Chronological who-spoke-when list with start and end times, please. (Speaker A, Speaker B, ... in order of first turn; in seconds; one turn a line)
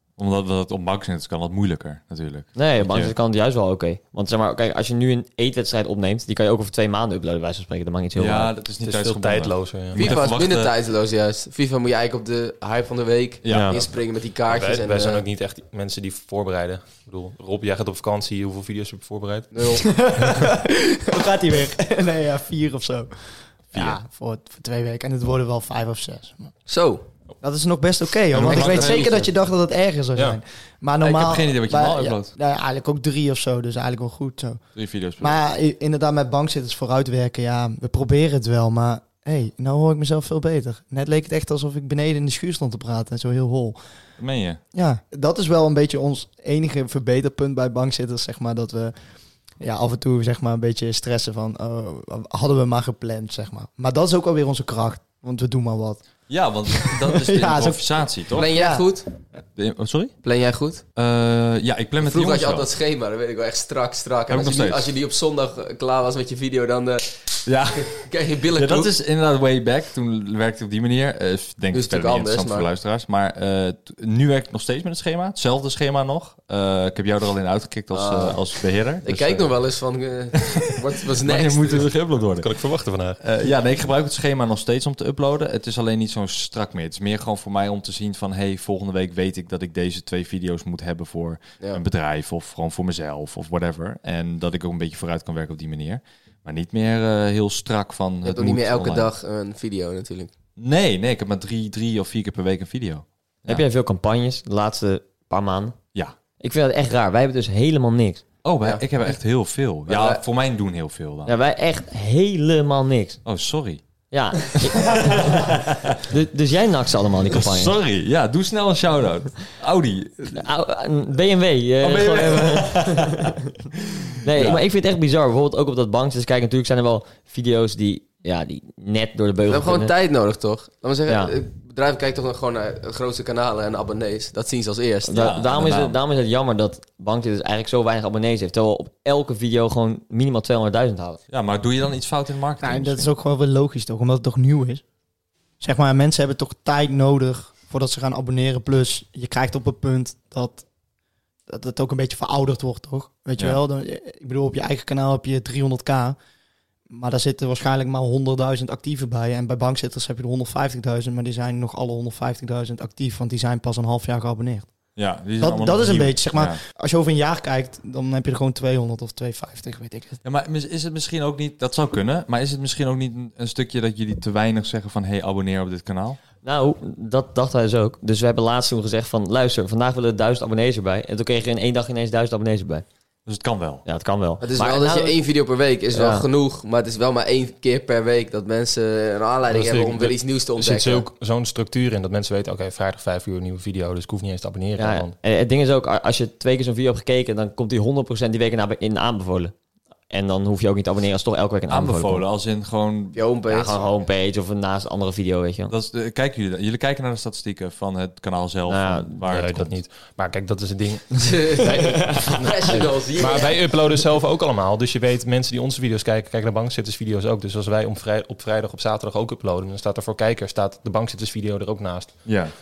Speaker A: 0.2-3.1
Speaker B: 2.5-8.5
Speaker A: 8.2-10.7
Speaker C: 8.8-10.2
Speaker D: 9.9-15.2
Speaker A: 13.4-13.9
Speaker C: 13.5-13.8
Speaker B: 13.5-13.8
Speaker C: 14.5-19.5
Speaker D: 19.5-19.8
Speaker E: 19.8-26.5
Speaker A: 23.7-24.0
Speaker D: 26.7-27.1
Speaker E: 27.4-34.6
Speaker C: 28.3-28.9
Speaker A: 28.3-29.1
Speaker D: 28.3-29.3
Speaker A: 31.0-32.3
Speaker A: 34.8-35.4
Speaker E: 35.2-43.8
Speaker A: 44.2-44.6
Speaker E: 44.7-49.0
Speaker E: 49.6-56.0
Speaker A: 56.3-58.5
Speaker E: 56.8-57.8
Speaker D: 58.3-59.1
Speaker E: 58.3-58.9
Speaker A: 59.5-60.1
Speaker D: 60.2-60.8
Speaker A: 61.0-62.7
Speaker D: 62.0-68.9
Speaker A: 64.3-65.0
Speaker A: 67.5-68.0
Speaker A: 68.5-79.5
Speaker D: 71.7-72.7
Speaker D: 77.9-78.4
Speaker D: 79.0-81.9
Speaker A: 80.3-80.7
Speaker A: 81.2-82.5
Speaker C: 82.4-83.2
Speaker A: 83.2-99.1
Speaker D: 98.2-100.3
Speaker A: 100.6-103.6
Speaker B: 103.5-105.8
Speaker B: 106.4-108.2
Speaker A: 108.4-111.3
Speaker D: 108.6-108.9
Speaker D: 109.9-110.2
Speaker B: 111.2-113.2
Speaker A: 113.2-113.8
Speaker B: 114.1-115.4
Speaker A: 114.6-116.1
Speaker B: 116.1-117.8
Speaker A: 117.3-120.4
Speaker B: 120.3-123.4
Speaker A: 121.8-123.3
Speaker B: 124.2-129.9
Speaker A: 124.3-124.6
Speaker D: 129.5-135.2
Speaker B: 131.1-131.3
Speaker B: 135.1-141.2
Speaker A: 135.1-136.0
Speaker A: 141.3-143.1
Speaker E: 142.6-144.8
Speaker E: 145.6-150.6
Speaker E: 151.5-156.2
Speaker E: 156.9-164.7
Speaker A: 164.9-166.6
Speaker E: 165.4-170.2
Speaker A: 170.2-176.2
Speaker B: 176.4-182.8
Speaker A: 183.2-183.8
Speaker B: 183.8-185.2
Speaker D: 184.4-191.1
Speaker B: 185.9-186.3
Speaker C: 189.5-195.1
Speaker B: 194.8-199.5
Speaker B: 200.1-202.2
Speaker A: 201.7-203.7
Speaker D: 203.1-203.8
Speaker B: 203.5-205.7
Speaker A: 205.7-209.8
Speaker B: 208.7-209.2
Speaker C: 209.3-222.2
Speaker D: 211.3-213.6
Speaker B: 211.8-212.8
Speaker A: 222.2-222.5